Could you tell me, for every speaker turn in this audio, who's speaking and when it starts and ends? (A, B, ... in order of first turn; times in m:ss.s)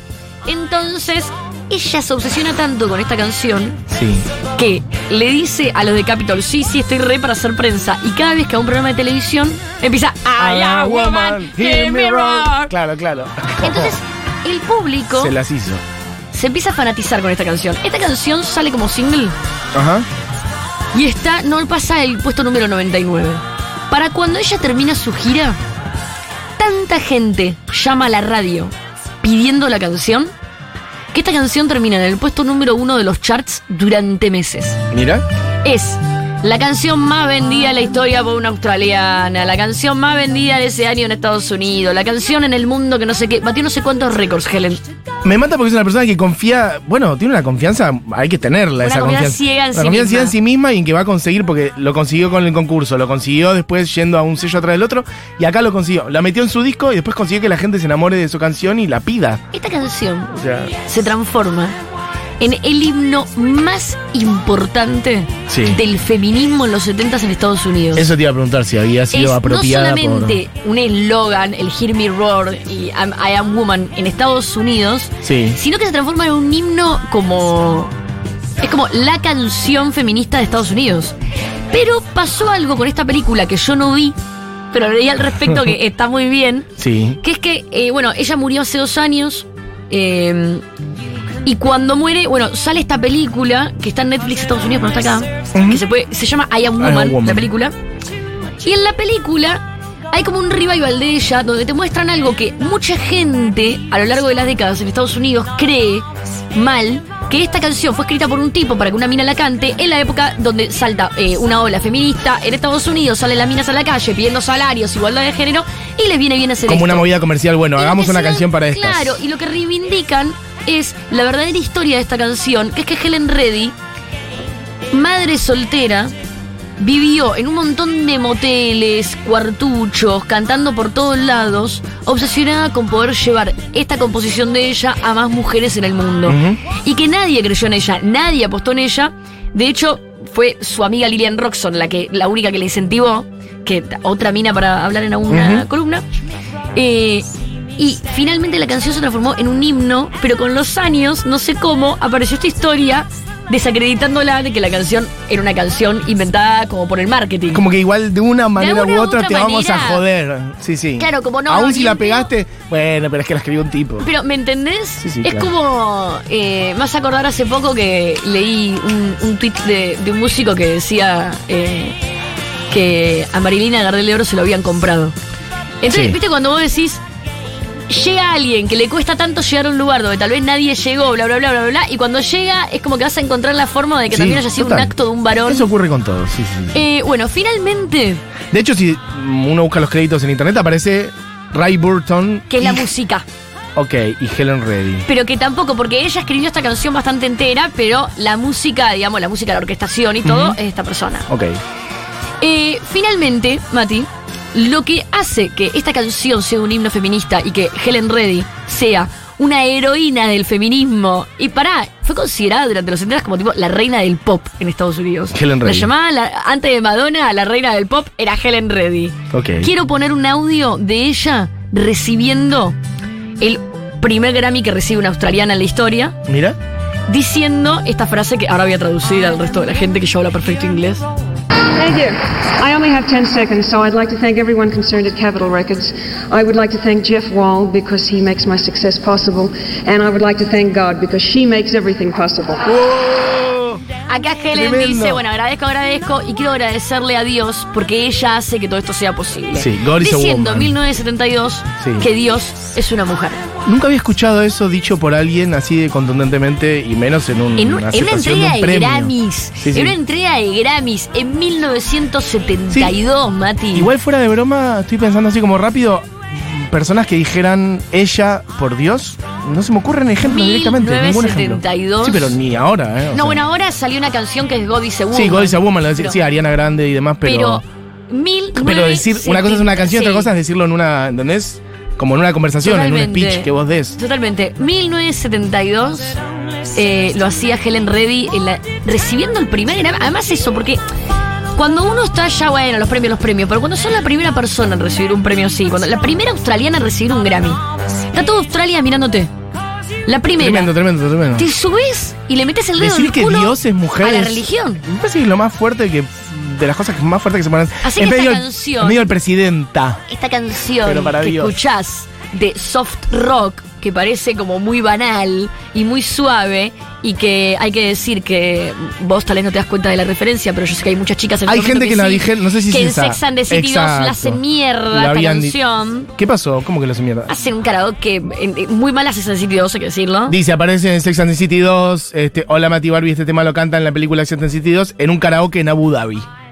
0:00.4-0:03.8 A
0:03.9-0:04.3 B
0:04.6-0:12.7 A
0:10.4-0:14.0 B
0:13.6-0:15.3 A
0:15.1-0:15.8 B
0:16.3-0:19.4 A
0:19.7-0:20.1 B
0:20.9-0:25.6 A
0:26.6-0:30.3 A
0:31.1-0:34.8 A
0:34.9-0:35.2 B
0:35.6-0:44.8 A
0:45.2-0:59.4 B
0:48.8-0:50.3 A
0:59.5-1:01.8 A
1:00.3-1:00.7 B
1:02.4-1:08.1 A
1:05.5-1:05.8 B
1:07.9-1:10.4 B
1:09.1-1:17.9 A
1:15.2-1:15.6 B
1:18.6-1:21.1 A
1:21.7-1:24.2 A
1:24.7-1:26.7 A
1:26.8-1:27.2 B
1:27.2-1:30.6 A
1:31.4-1:37.7 A
1:35.5-1:35.8 B
1:36.8-1:37.5 B
1:38.6-1:57.0 A
1:56.6-1:59.2 B
1:57.8-2:03.7 A
2:04.9-2:06.1 A
2:06.8-2:26.0 A
2:16.2-2:16.6 B
2:25.3-2:25.6 B
2:26.7-2:37.6 A
2:37.5-2:44.1 B
2:38.6-2:40.0 A
2:41.0-2:42.3 A
2:44.0-2:52.0 A
2:45.0-2:45.5 B
2:52.7-2:55.1 A
2:55.8-2:57.0 A
2:55.9-2:56.2 B
2:57.9-3:05.7 A
3:04.1-3:06.8 B
3:06.7-3:08.2 A
3:08.5-3:12.9 B
3:12.5-3:13.2 A
3:13.8-3:15.1 B
3:15.0-3:21.3 A
3:20.2-3:20.6 B
3:21.3-3:21.6 B
3:22.4-3:42.8 A
3:35.3-3:35.9 B
3:39.3-3:39.7 B
3:43.4-3:46.2 A
3:46.2-3:46.6 B
3:47.1-3:51.0 A
3:51.8-4:02.6 C
4:02.6-4:03.8 B
4:04.1-4:13.4 A
4:04.5-4:05.2 B
4:09.5-4:10.8 B
4:11.8-4:12.1 B
4:13.6-4:20.0 B
4:17.6-4:23.9 A
4:22.7-4:23.0 B
4:23.7-4:33.4 B
4:30.2-4:32.4 A
4:33.1-4:36.2 A
4:35.1-4:37.6 B
4:37.2-4:40.3 A
4:38.5-4:44.0 B
4:42.6-4:46.2 A
4:46.7-4:50.8 A
4:51.5-4:59.3 A
5:00.0-5:00.7 A
5:00.4-5:01.5 B
5:01.4-5:04.8 A
5:02.8-5:10.0 B
5:07.8-5:09.1 A
5:10.1-5:26.1 A
5:10.8-5:11.6 B
5:21.4-5:25.6 B
5:26.1-5:27.3 B
5:27.3-5:30.4 A
5:30.3-5:36.3 B